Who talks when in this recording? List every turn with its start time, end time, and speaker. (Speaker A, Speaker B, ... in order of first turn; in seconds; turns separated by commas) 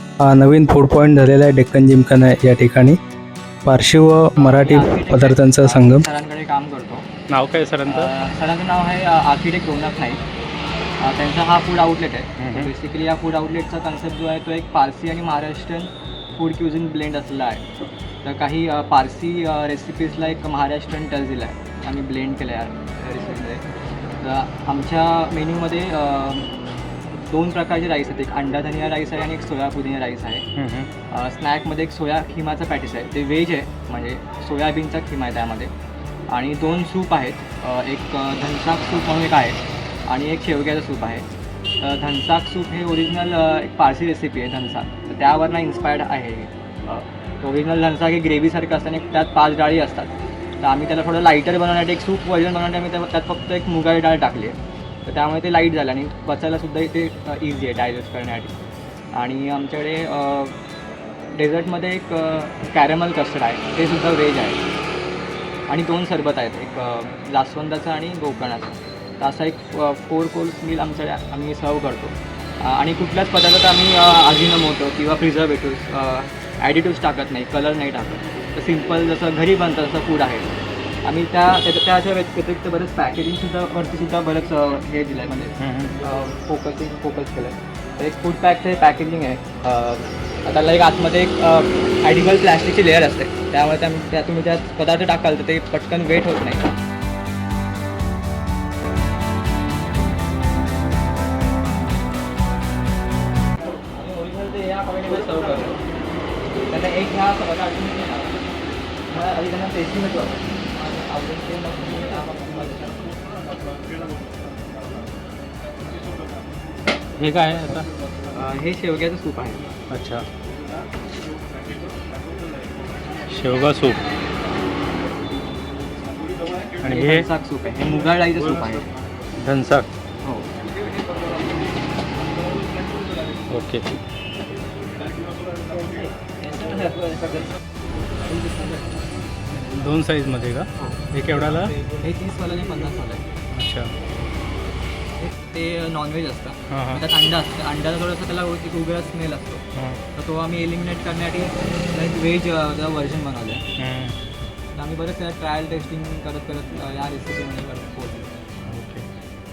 Speaker A: 0.2-3.0, Speaker A: 3.6-6.0, Speaker B: 4.4-7.1, Speaker C: 7.3-8.1, Speaker B: 7.9-10.2, Speaker B: 11.0-17.7, Speaker C: 12.4-12.7, Speaker B: 18.2-23.6, Speaker B: 24.2-26.5, Speaker B: 27.2-30.4, Speaker C: 30.6-30.9, Speaker B: 31.1-35.7, Speaker B: 36.3-41.2, Speaker B: 41.8-58.5, Speaker B: 59.1-60.5, Speaker B: 61.3-64.6, Speaker B: 65.7-80.5, Speaker B: 81.0-96.6, Speaker C: 85.6-85.9, Speaker B: 103.9-105.8, Speaker B: 106.7-108.4, Speaker B: 109.1-113.0, Speaker C: 117.2-117.9, Speaker B: 118.3-119.6, Speaker C: 119.9-120.2, Speaker C: 123.3-124.0, Speaker C: 126.8-127.2, Speaker B: 126.8-128.9, Speaker C: 129.4-129.9, Speaker B: 130.2-130.5, Speaker C: 133.5-133.8, Speaker B: 135.9-137.4, Speaker C: 139.6-141.7, Speaker B: 140.8-143.2, Speaker C: 143.6-143.9, Speaker B: 145.2-149.6, Speaker C: 146.7-147.0, Speaker C: 149.8-150.0, Speaker B: 150.2-153.6, Speaker C: 153.8-154.2, Speaker B: 154.8-158.3, Speaker C: 158.7-159.1